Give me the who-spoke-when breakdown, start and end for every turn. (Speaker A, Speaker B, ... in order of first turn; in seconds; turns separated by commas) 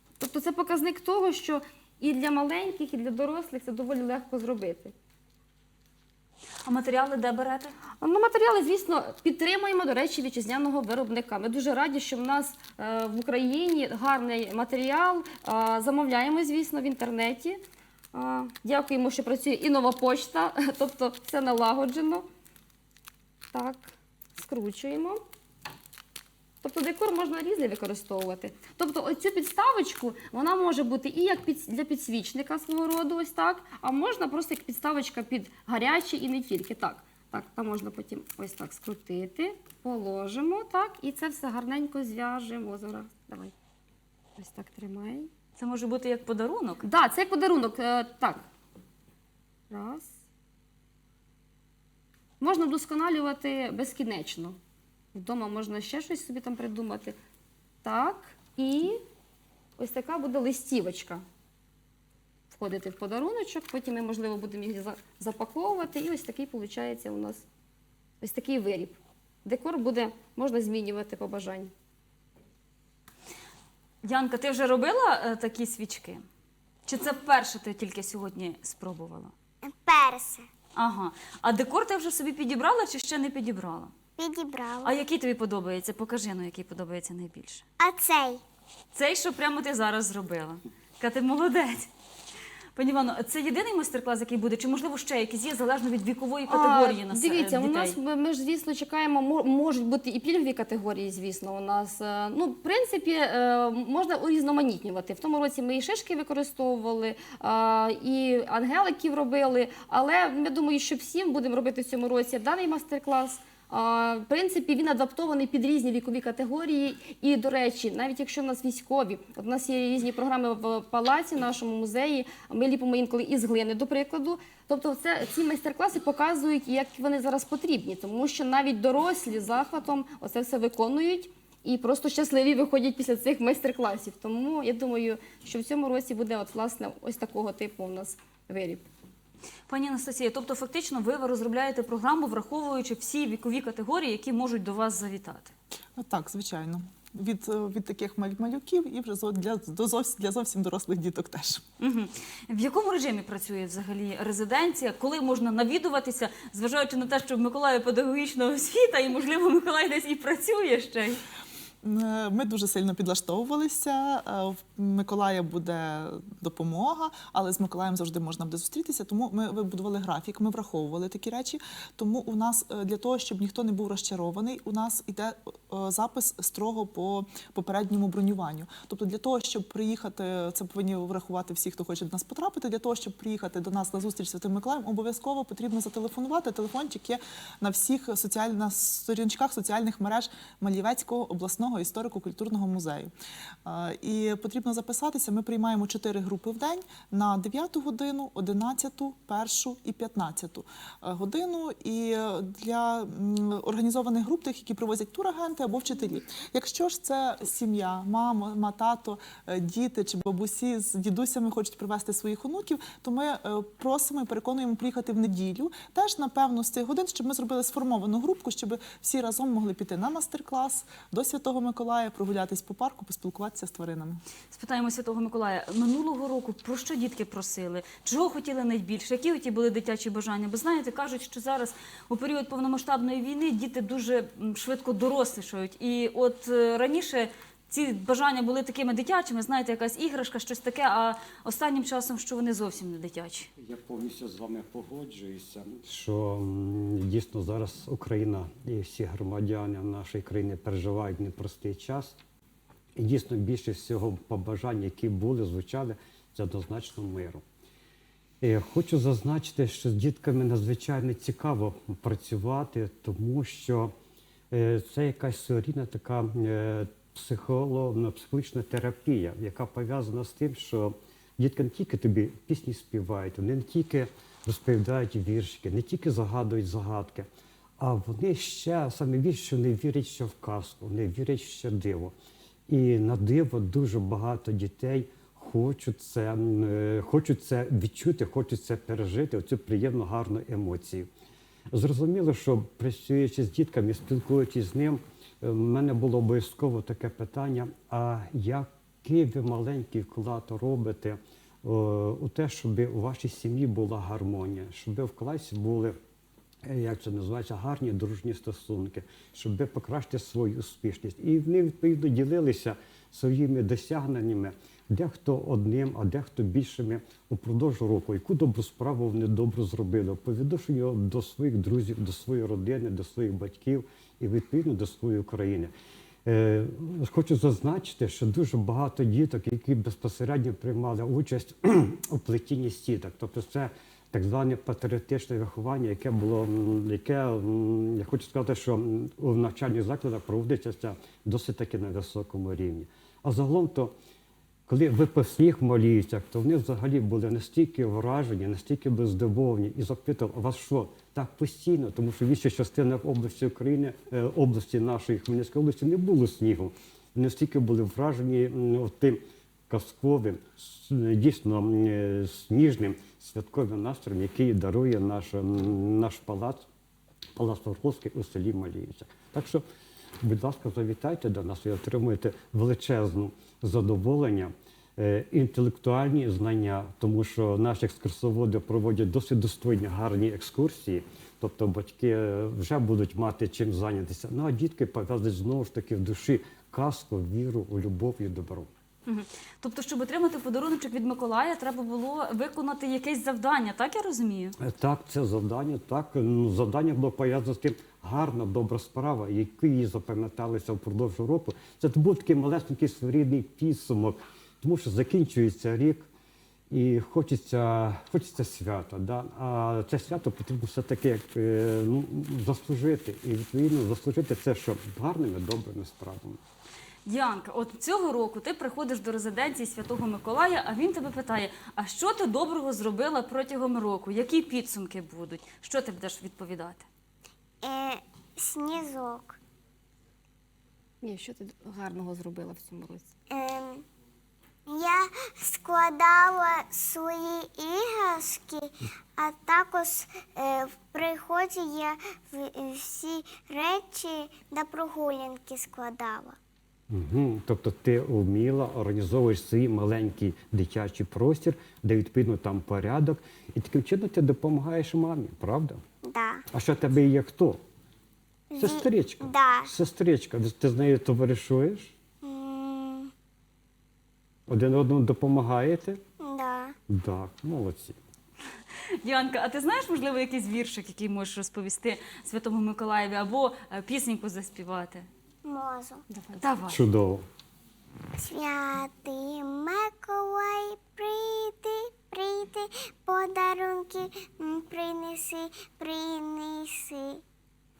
Speaker A: 0.2-4.9, Speaker B: 6.6-7.7, Speaker A: 8.0-17.6, Speaker A: 18.1-22.3, Speaker A: 23.5-25.2, Speaker A: 26.6-43.5, Speaker A: 44.4-45.3, Speaker B: 45.6-46.9, Speaker A: 46.8-48.5, Speaker A: 49.7-50.1, Speaker A: 52.4-54.6, Speaker A: 55.1-57.1, Speaker A: 57.8-59.0, Speaker A: 59.8-61.2, Speaker A: 62.5-67.4, Speaker A: 68.2-71.7, Speaker B: 74.0-76.2, Speaker B: 76.9-79.3, Speaker C: 79.6-80.5, Speaker B: 80.8-83.9, Speaker C: 84.2-84.9, Speaker B: 84.8-87.6, Speaker C: 87.8-88.4, Speaker B: 88.9-91.9, Speaker B: 92.8-98.0, Speaker A: 96.5-138.8, Speaker B: 139.7-145.5, Speaker D: 146.0-151.6, Speaker B: 151.8-161.2, Speaker D: 161.8-193.1, Speaker D: 193.6-224.2, Speaker B: 224.5-243.5, Speaker E: 243.6-252.2, Speaker E: 252.9-257.4, Speaker E: 258.4-263.9, Speaker E: 264.5-277.3, Speaker E: 277.8-282.1, Speaker E: 282.7-291.1, Speaker E: 291.7-306.0, Speaker E: 306.6-325.7, Speaker E: 326.2-343.9, Speaker E: 344.7-366.6, Speaker E: 367.4-369.6, Speaker E: 370.2-388.7, Speaker B: 389.1-394.6, Speaker E: 394.6-406.1, Speaker E: 406.7-416.4, Speaker B: 417.1-426.9, Speaker C: 427.6-429.4, Speaker A: 431.0-433.1, Speaker C: 433.3-433.8, Speaker C: 434.7-446.4, Speaker E: 446.9-455.8, Speaker C: 456.0-456.4, Speaker E: 456.5-457.6, Speaker C: 458.5-459.7, Speaker E: 458.6-461.9, Speaker C: 462.2-463.1, Speaker E: 464.5-466.0, Speaker C: 466.2-466.7, Speaker E: 466.9-468.0, Speaker B: 469.0-475.1, Speaker C: 475.4-476.0, Speaker A: 476.1-476.4, Speaker B: 476.4-476.8, Speaker E: 476.7-477.2, Speaker C: 478.2-487.2